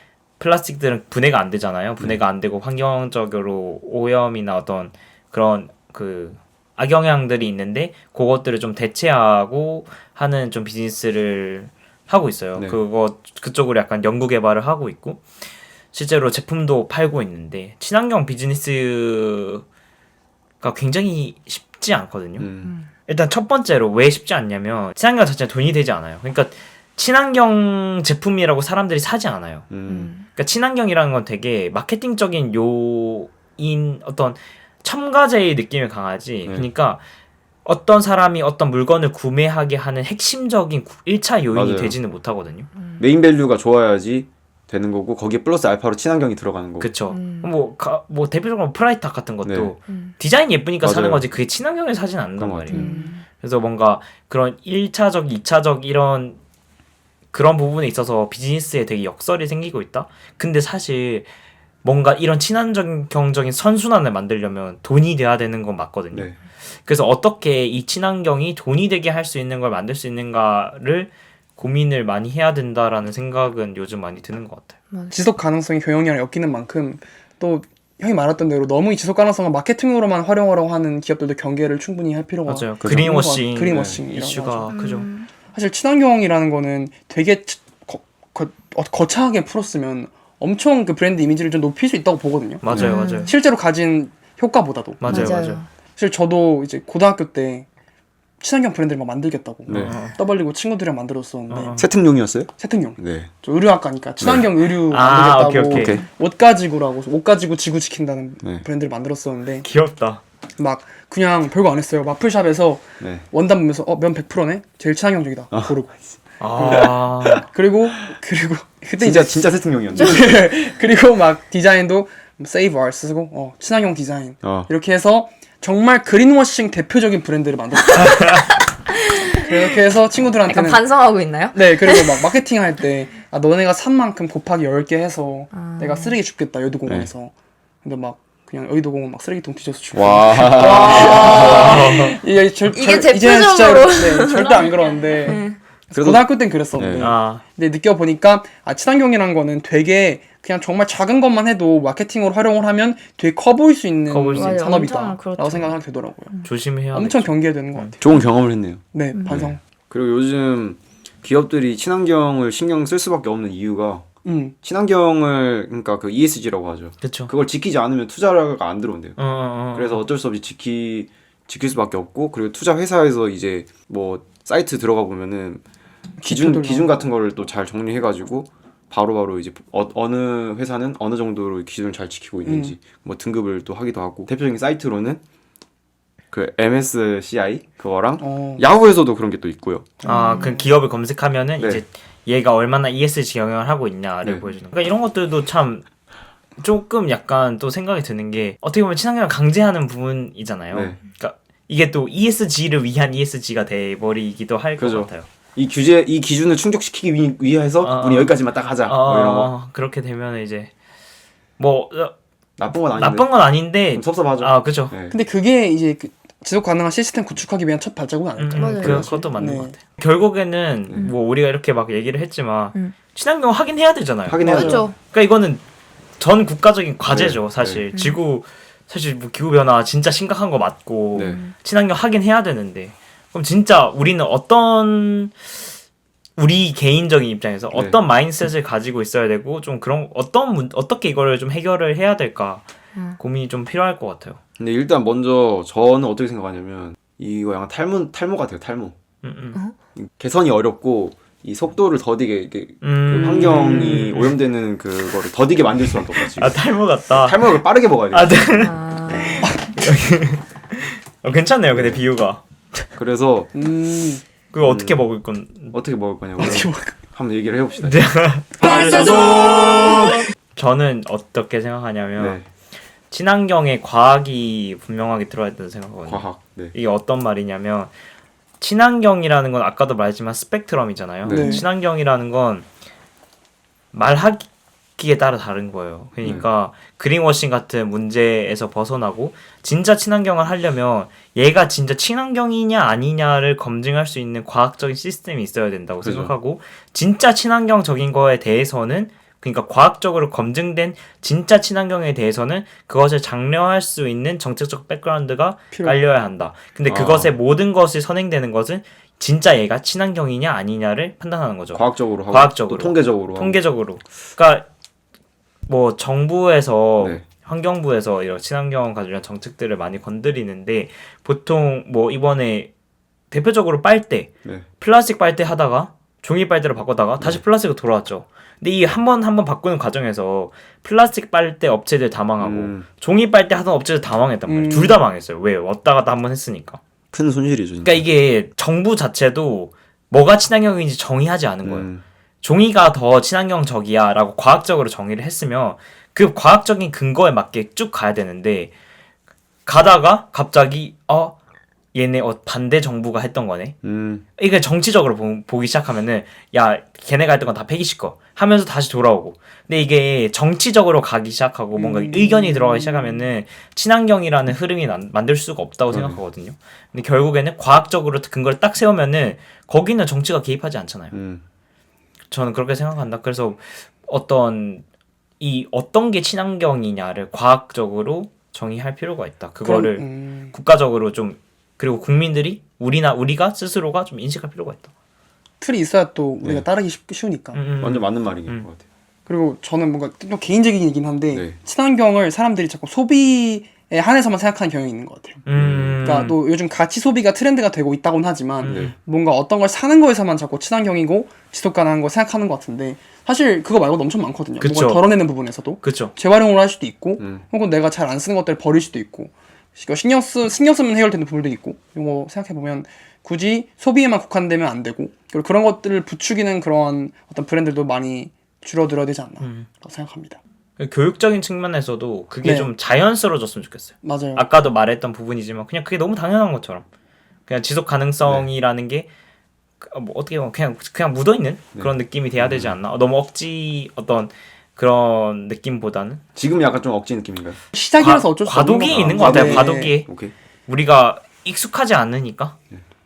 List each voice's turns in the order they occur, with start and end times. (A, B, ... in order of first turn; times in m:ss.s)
0:00.4-0:15.2 A
0:15.9-0:19.6 A
0:20.6-0:22.5 A
0:22.4-0:22.7 B
0:22.6-0:22.9 C
0:23.1-0:29.7 A
0:29.7-0:30.1 B
0:29.9-0:30.2 C
0:30.4-0:37.0 A
0:37.6-0:42.7 A
0:41.5-0:42.0 B
0:42.8-0:43.0 C
0:43.0-0:46.9 B
0:46.8-0:56.4 A
0:47.1-0:47.5 C
0:49.4-0:49.7 B
0:50.8-0:51.3 B
0:52.4-0:52.8 B
0:52.7-0:53.2 C
0:52.7-0:53.1 D
0:57.3-1:01.3 A
1:01.8-1:14.7 A
1:15.1-1:24.7 D
1:22.5-1:25.1 A
1:23.7-1:24.0 B
1:24.7-1:25.3 C
1:25.5-1:32.6 D
1:32.6-1:33.3 A
1:32.7-1:32.9 B
1:32.8-1:33.3 C
1:33.2-1:37.7 D
1:35.0-1:35.6 A
1:35.0-1:35.7 C
1:38.4-1:41.8 D
1:39.7-1:40.0 B
1:39.7-1:40.2 A
1:41.5-1:41.8 A
1:41.8-1:43.3 B
1:42.6-1:49.7 D
1:44.2-1:44.5 B
1:44.9-1:46.0 A
1:45.7-1:46.0 B
1:49.6-1:50.2 A
1:50.6-1:56.0 D
1:53.0-1:53.2 B
1:56.4-1:57.4 A
1:56.6-2:08.4 D
1:56.7-1:57.3 B
1:59.0-2:00.2 B
2:04.4-2:04.7 B
2:09.0-2:09.6 C
2:09.4-2:10.9 D
2:10.5-2:12.3 C
2:11.5-2:17.3 D
2:15.5-2:16.2 C
2:17.8-2:36.4 D
2:19.9-2:21.8 B
2:20.7-2:21.7 C
2:21.0-2:22.2 A
2:22.7-2:25.6 C
2:26.0-2:27.1 B
2:27.0-2:27.4 A
2:34.1-2:34.7 A
2:34.3-2:35.8 C
2:36.4-2:37.9 A
2:36.9-2:38.0 D
2:38.0-2:44.0 B
2:38.9-2:39.6 D
2:44.2-2:44.6 D
2:44.6-2:49.2 B
2:47.0-2:47.3 A
2:49.2-2:50.0 A
2:49.7-2:55.6 B
2:56.2-2:57.0 D
2:56.3-3:05.2 B
3:02.4-3:02.8 D
3:06.3-3:09.9 B
3:08.2-3:08.6 D
3:10.0-3:10.6 D
3:10.0-3:15.9 A
3:10.1-3:10.5 C
3:16.6-3:25.3 A
3:20.7-3:21.0 B
3:24.8-3:29.5 B
3:27.8-3:30.7 A
3:31.6-3:32.1 A
3:32.6-3:33.3 B
3:32.9-3:34.9 A
3:33.9-3:35.1 B
3:35.1-3:39.8 D
3:38.4-3:45.6 A
3:38.6-3:39.3 C
3:44.3-3:44.9 B
3:44.4-3:45.0 C
3:44.5-3:44.8 D
3:46.2-3:55.4 A
3:47.1-3:47.8 B
3:47.9-3:48.2 C
3:51.2-3:51.4 B
3:51.3-3:51.5 C
3:56.4-4:02.6 A
3:57.7-3:58.0 B
4:03.2-4:04.4 A
4:04.6-4:09.0 B
4:09.2-4:09.6 A
4:10.0-4:18.5 B
4:12.8-4:14.4 A
4:16.2-4:18.7 A
4:18.5-4:19.5 C
4:19.4-4:19.7 D
4:19.8-4:22.4 A
4:21.7-4:22.0 B
4:23.0-4:23.5 B
4:23.5-4:24.2 D
4:24.5-4:25.8 A
4:24.6-4:25.0 B
4:25.7-4:28.1 B
4:26.4-4:27.0 D
4:27.8-4:29.3 A
4:29.8-4:32.4 A
4:32.2-4:32.5 B
4:33.1-4:37.9 A
4:36.1-4:36.8 B
4:38.6-4:42.7 A
4:41.2-4:41.6 B
4:41.3-4:41.6 D
4:43.9-5:14.6 A
4:56.0-4:56.3 B
5:05.7-5:06.0 D
5:06.9-5:07.3 B
5:11.7-5:13.6 B
5:15.7-5:22.7 A
5:17.0-5:17.2 B
5:23.3-5:36.8 A
5:32.4-5:32.9 B
5:34.5-5:35.0 D
5:37.1-5:38.0 B
5:37.8-5:41.9 A
5:41.6-5:42.0 B
5:42.4-5:48.7 A
5:49.7-5:51.4 A
5:51.9-5:53.8 A
5:53.8-5:54.2 B
5:54.4-6:11.2 A
6:01.8-6:03.3 D
6:05.9-6:06.2 B
6:11.1-6:11.4 B
6:12.3-6:14.8 A
6:15.4-6:24.9 A
6:19.6-6:20.6 D
6:25.6-6:27.6 D
6:27.5-6:28.7 A
6:27.8-6:28.8 B
6:29.3-6:35.4 D
6:35.5-6:36.4 A
6:35.5-6:36.0 B
6:36.0-7:00.4 D
6:38.6-6:38.9 A
6:38.7-6:38.9 B
6:44.6-6:45.1 A
6:45.8-6:46.1 A
6:59.4-6:59.7 A
7:00.8-7:06.8 A
7:02.4-7:02.7 D
7:04.0-7:04.5 D
7:07.5-7:09.1 A
7:08.2-7:08.5 B
7:09.8-7:16.2 A
7:11.8-7:12.8 B
7:16.4-7:17.6 B
7:17.7-7:20.0 D
7:18.0-7:20.1 A
7:18.9-7:20.3 B
7:20.7-7:22.6 A